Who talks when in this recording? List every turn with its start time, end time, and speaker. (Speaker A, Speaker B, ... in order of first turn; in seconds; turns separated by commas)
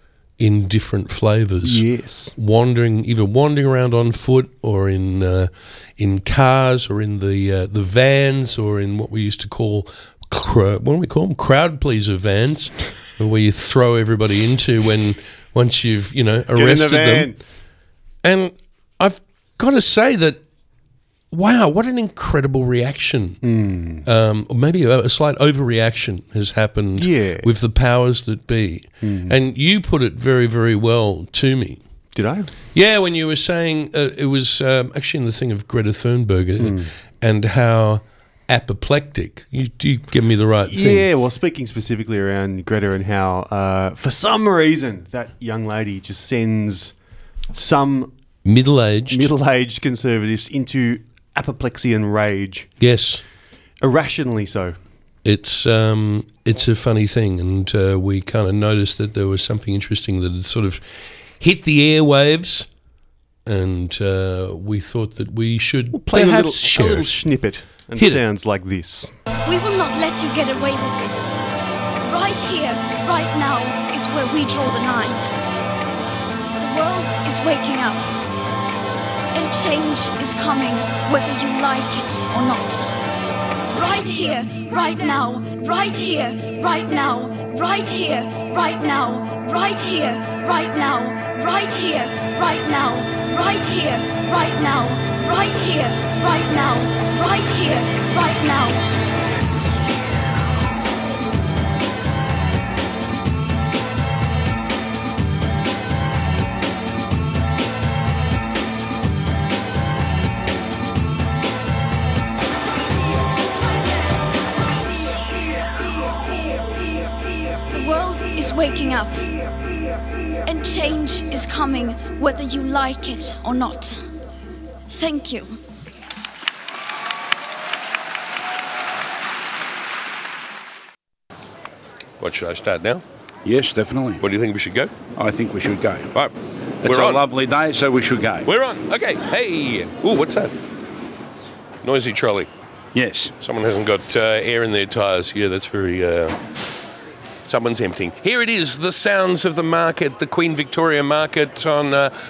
Speaker A: 0.4-17.3, Speaker B: 1.6-2.3, Speaker B: 16.5-17.4, Speaker A: 18.2-20.4, Speaker A: 21.3-23.4, Speaker B: 23.4-24.1, Speaker A: 24.0-31.8, Speaker B: 27.0-27.5, Speaker B: 29.0-29.3, Speaker B: 32.1-32.5, Speaker A: 32.7-41.1, Speaker B: 36.6-36.9, Speaker B: 40.7-46.9, Speaker B: 47.5-48.1, Speaker A: 48.4-49.3, Speaker B: 49.1-52.7, Speaker A: 52.8-53.2, Speaker B: 53.8-54.8, Speaker A: 55.2-60.8, Speaker A: 61.4-62.7, Speaker A: 63.5-67.2, Speaker B: 65.9-69.1, Speaker A: 68.0-68.2, Speaker C: 69.4-71.3, Speaker C: 72.0-75.2, Speaker C: 76.6-78.2, Speaker C: 79.3-82.9, Speaker C: 83.7-98.8, Speaker C: 117.7-119.3, Speaker C: 120.5-124.0, Speaker C: 124.9-125.6, Speaker A: 132.2-133.0, Speaker D: 133.4-134.2, Speaker A: 134.2-134.9, Speaker D: 135.2-136.1, Speaker A: 136.1-137.2, Speaker D: 136.8-138.5, Speaker A: 138.4-140.5, Speaker A: 141.8-142.5, Speaker D: 142.9-143.3, Speaker A: 143.4-146.4, Speaker A: 147.4-152.1